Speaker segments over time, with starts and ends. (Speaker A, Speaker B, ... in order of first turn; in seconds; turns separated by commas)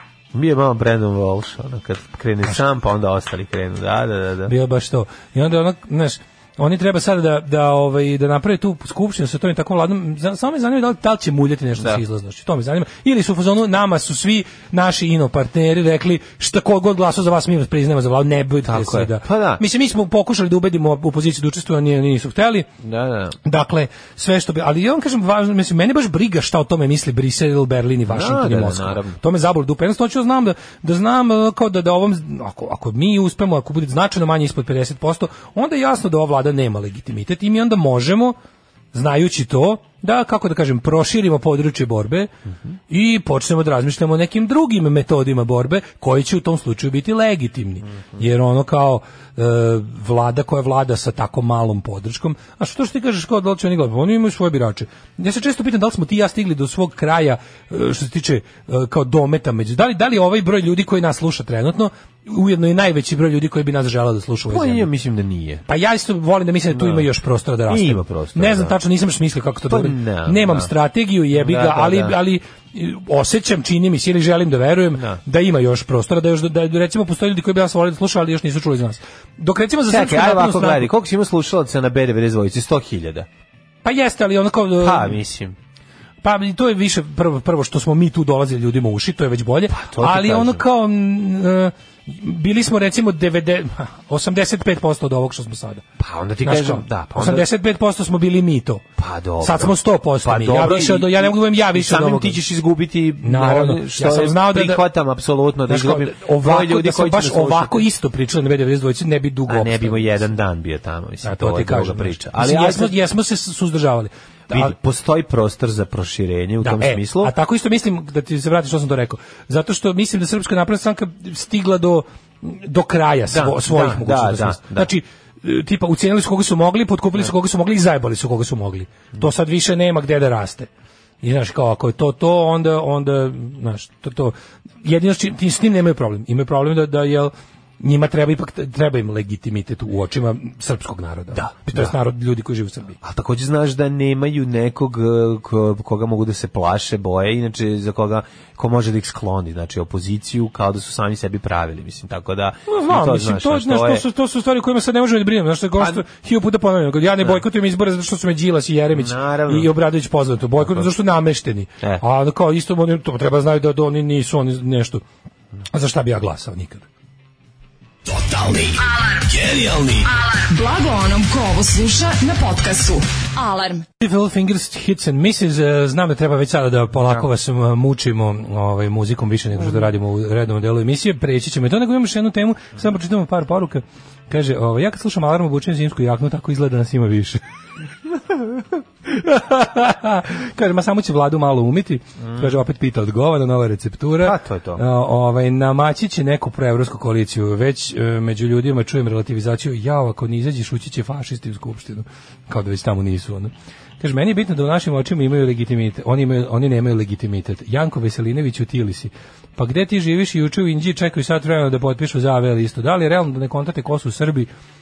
Speaker A: 0.3-4.5, Speaker B: 4.5-22.7, Speaker A: 11.8-12.0, Speaker A: 18.7-19.6, Speaker A: 22.8-23.4, Speaker B: 23.4-38.4, Speaker A: 28.1-29.2, Speaker B: 38.9-42.3, Speaker B: 42.9-64.9, Speaker A: 64.5-65.6, Speaker B: 65.7-80.9, Speaker A: 66.7-67.1, Speaker A: 67.7-68.8, Speaker A: 69.7-70.7, Speaker A: 71.3-72.2, Speaker A: 75.0-75.2, Speaker A: 79.9-83.3, Speaker B: 83.8-85.2, Speaker A: 84.8-85.6, Speaker B: 86.2-95.8, Speaker A: 89.7-90.6, Speaker A: 96.0-97.5, Speaker B: 96.4-98.8, Speaker A: 99.0-107.8, Speaker B: 99.4-102.4, Speaker B: 103.2-104.9, Speaker B: 105.7-110.3, Speaker A: 109.5-112.9, Speaker B: 111.2-114.7, Speaker A: 114.5-117.3, Speaker B: 116.6-130.7, Speaker A: 123.3-124.9, Speaker B: 131.2-143.0, Speaker A: 141.3-141.9, Speaker A: 143.0-154.0, Speaker B: 152.7-165.0, Speaker A: 155.8-156.0, Speaker A: 158.9-159.7, Speaker A: 160.6-160.9, Speaker B: 165.7-166.8, Speaker B: 168.1-168.8, Speaker C: 168.8-169.3, Speaker B: 169.3-170.1, Speaker C: 170.0-173.9, Speaker B: 174.0-187.4, Speaker B: 189.1-214.5, Speaker A: 192.2-192.5, Speaker A: 194.2-194.8